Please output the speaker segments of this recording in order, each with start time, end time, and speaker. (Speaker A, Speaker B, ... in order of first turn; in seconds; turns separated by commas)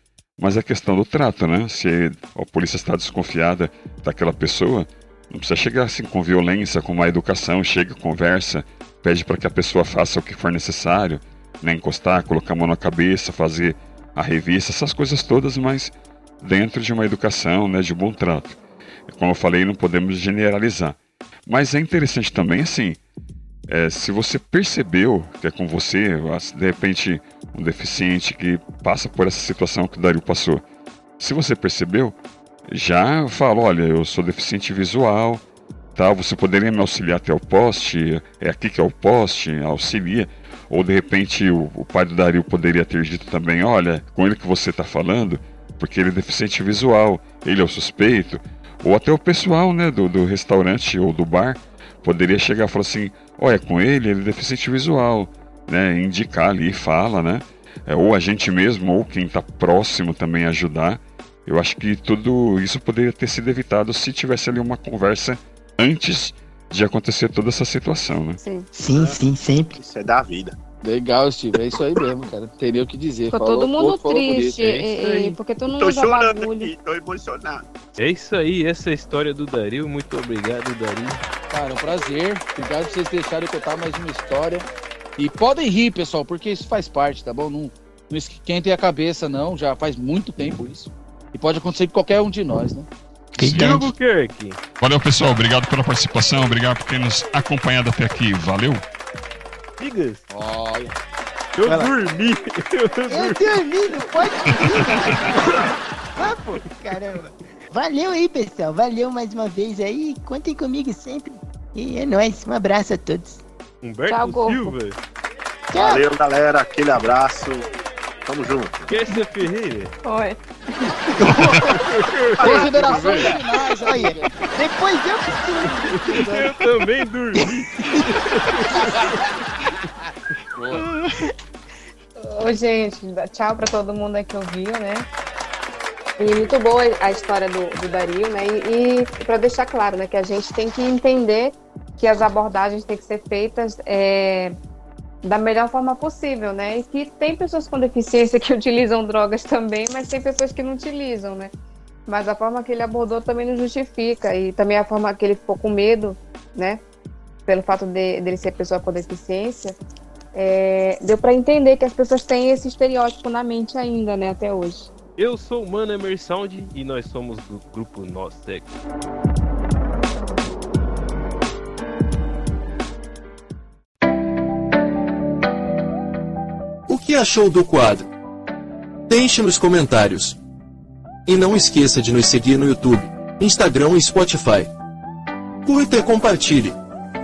Speaker A: 0.4-23.0, Speaker A: 23.7-30.6, Speaker A: 31.2-32.2, Speaker A: 32.7-35.4, Speaker A: 36.0-68.4, Speaker B: 68.4-68.7, Speaker C: 68.7-69.8, Speaker D: 68.9-69.2, Speaker D: 69.8-70.6, Speaker E: 70.8-74.8, Speaker B: 73.3-76.7, Speaker F: 74.8-75.4, Speaker D: 75.8-77.7, Speaker F: 78.0-81.2, Speaker E: 81.5-92.9, Speaker C: 93.4-93.9, Speaker A: 93.4-93.9, Speaker F: 93.5-94.6, Speaker A: 94.8-98.8, Speaker F: 99.8-100.2, Speaker E: 100.3-101.0, Speaker F: 101.6-103.5, Speaker C: 101.7-101.9, Speaker C: 103.1-105.6, Speaker C: 106.2-113.4, Speaker F: 113.8-115.0, Speaker B: 114.1-114.8, Speaker C: 115.7-116.0, Speaker D: 115.7-117.7, Speaker D: 118.3-118.9, Speaker F: 118.9-119.9, Speaker B: 120.0-121.1, Speaker C: 121.2-121.8, Speaker F: 121.2-123.4, Speaker D: 121.3-121.7, Speaker D: 122.4-123.3, Speaker E: 122.4-124.4, Speaker C: 123.8-126.5, Speaker F: 125.7-129.3, Speaker E: 130.6-130.9, Speaker B: 132.2-135.1, Speaker B: 136.2-144.6, Speaker B: 145.2-151.5, Speaker B: 152.1-156.8, Speaker B: 157.5-159.8, Speaker B: 160.3-164.9, Speaker F: 165.2-168.7, Speaker G: 176.9-178.1, Speaker G: 179.1-180.4, Speaker G: 181.3-184.7, Speaker G: 185.7-186.8